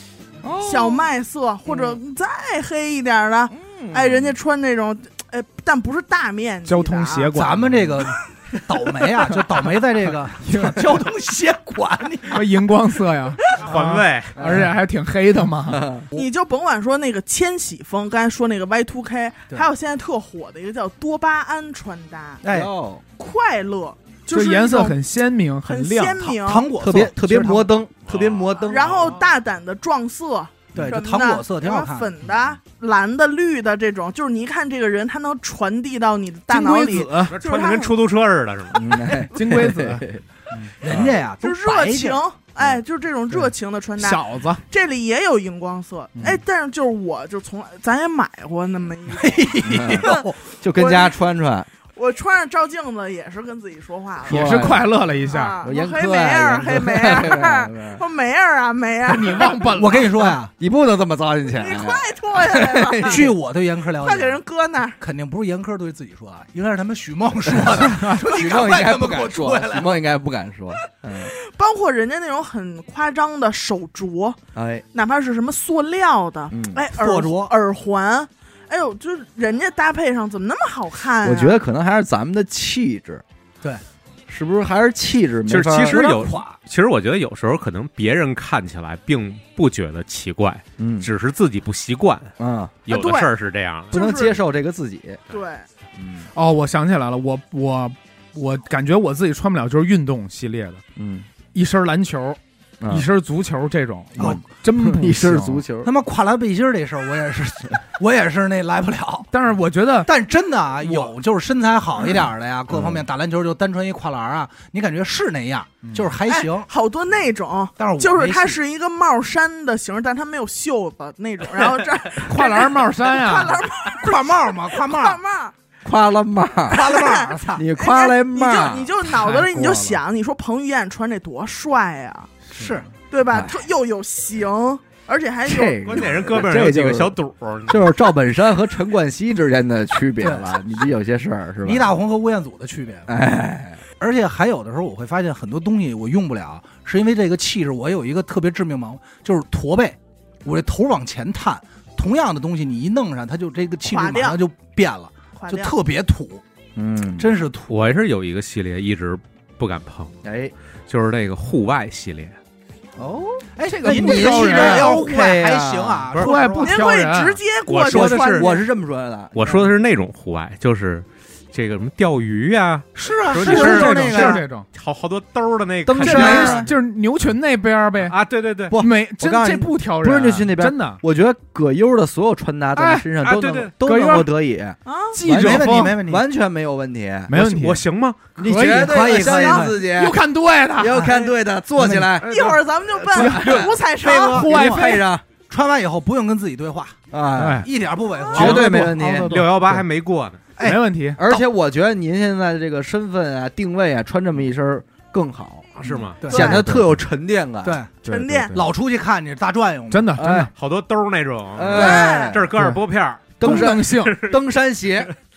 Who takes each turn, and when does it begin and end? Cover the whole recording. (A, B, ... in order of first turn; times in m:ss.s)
0:00.4-0:01.1 A
0:00.6-0:07.3 B
0:03.5-0:04.4 A
0:06.6-0:08.1 C
0:07.3-0:12.5 D
0:10.4-0:11.0 C
0:12.3-0:15.9 C
0:13.6-0:14.3 E
0:14.4-0:14.7 A
0:15.7-0:16.1 A
0:16.1-0:22.4 B
0:22.4-0:22.7 D
0:22.5-0:23.0 A
0:23.2-0:25.0 B
0:24.3-0:26.4 C
0:25.6-0:26.7 B
0:26.4-0:27.7 D
0:26.8-0:29.0 A
0:28.0-0:29.2 E
0:28.7-0:38.0 B
0:30.7-0:32.1 D
0:36.5-0:37.3 C
0:37.3-0:38.9 E
0:38.7-0:40.2 A
0:39.3-0:40.7 C
0:40.8-0:42.2 D
0:40.8-0:41.2 A
0:41.3-0:51.1 B
0:44.0-0:44.6 C
0:49.1-0:50.4 D
0:49.6-0:51.7 A
0:51.9-0:54.7 B
0:54.2-0:54.9 A
0:54.2-0:55.6 C
0:55.2-0:59.8 B
0:55.6-0:58.0 A
0:59.0-1:00.3 C
0:59.7-1:00.5 D
1:00.6-1:03.3 A
1:01.6-1:03.3 B
1:03.0-1:04.4 D
1:04.0-1:05.0 B
1:05.0-1:10.0 D
1:07.5-1:11.3 A
1:07.8-1:08.1 C
1:11.2-1:14.4 B
1:14.5-1:14.8 A
1:14.9-1:21.6 B
1:16.5-1:16.8 A
1:16.9-1:17.5 D
1:21.2-1:23.2 A
1:24.3-1:26.1 A
1:25.5-1:32.3 E
1:25.9-1:26.5 D
1:30.8-1:31.1 A
1:32.4-1:32.8 A
1:32.9-1:34.0 E
1:32.9-1:33.3 B
1:33.9-1:34.4 B
1:33.9-1:35.2 A
1:35.3-1:35.7 B
1:36.0-1:36.3 A
1:36.3-1:40.8 C
1:41.0-1:41.3 A
1:41.5-1:45.6 C
1:42.8-1:43.1 A
1:44.2-1:45.9 A
1:45.8-1:49.3 D
1:49.3-1:50.1 C
1:50.0-1:56.7 D
1:50.8-1:51.1 C
1:52.7-1:53.0 A
1:55.8-1:56.1 C
1:56.3-2:05.5 B
1:57.8-1:58.6 D
2:02.2-2:03.6 C
2:04.0-2:05.2 D
2:05.8-2:08.9 A
2:06.7-2:07.6 D
2:06.8-2:12.3 B
2:09.0-2:10.0 C
2:12.5-2:12.9 D
2:13.1-2:16.0 B
2:13.3-2:13.6 A
2:15.4-2:21.9 A
2:15.8-2:17.9 E
2:20.2-2:20.6 D
2:21.6-2:23.1 D
2:23.1-2:23.8 A
2:24.0-2:36.4 D
2:33.8-2:34.4 B
2:35.3-2:35.7 B
2:36.8-2:37.3 A
2:37.2-2:37.7 D
2:37.7-2:40.1 E
2:40.2-2:40.5 A
2:40.9-2:42.4 E
2:43.0-2:46.2 A
2:43.6-2:46.8 D
2:43.7-2:44.9 C
2:46.1-2:47.4 C
2:46.6-2:48.6 B
2:47.6-2:48.5 E
2:47.9-2:49.7 A
2:49.3-2:56.7 E
2:53.0-2:54.4 D
2:53.3-2:54.6 C
2:55.8-2:56.7 A
2:56.0-2:58.2 C
2:58.1-2:58.8 E
2:58.7-3:07.3 A
2:58.8-3:01.0 C
3:02.8-3:03.1 C
3:03.2-3:03.7 E
3:03.8-3:04.3 C
3:04.8-3:05.2 B
3:05.1-3:06.0 C
3:05.2-3:06.2 D
3:07.3-3:07.8 C
3:07.3-3:08.3 E
3:08.4-3:10.2 A
3:08.4-3:11.1 C
3:08.5-3:09.8 D
3:09.2-3:09.6 B
3:10.8-3:13.8 A
3:10.8-3:12.2 D
3:12.2-3:14.5 B
3:13.1-3:13.6 C
3:14.0-3:17.0 D
3:14.2-3:15.0 C
3:14.4-3:15.2 A
3:17.1-3:17.6 A
3:17.4-3:17.7 C
3:17.6-3:18.7 D
3:18.3-3:19.4 A
3:18.3-3:19.8 C
3:18.4-3:18.7 E
3:19.3-3:20.4 E
3:20.6-3:21.5 D
3:20.6-3:21.2 C
3:21.2-3:25.7 A
3:25.8-3:26.2 E
3:25.8-3:26.6 D
3:26.3-3:27.8 A
3:26.3-3:26.6 B
3:26.5-3:26.8 C
3:27.6-3:27.9 D
3:28.0-3:28.6 C
3:28.0-3:28.6 B
3:28.5-3:30.2 D
3:29.9-3:30.5 C
3:30.1-3:30.5 A
3:30.5-3:34.4 E
3:31.5-3:32.5 A
3:31.7-3:32.4 B
3:32.5-3:32.8 C
3:33.4-3:35.1 A
3:33.4-3:34.2 C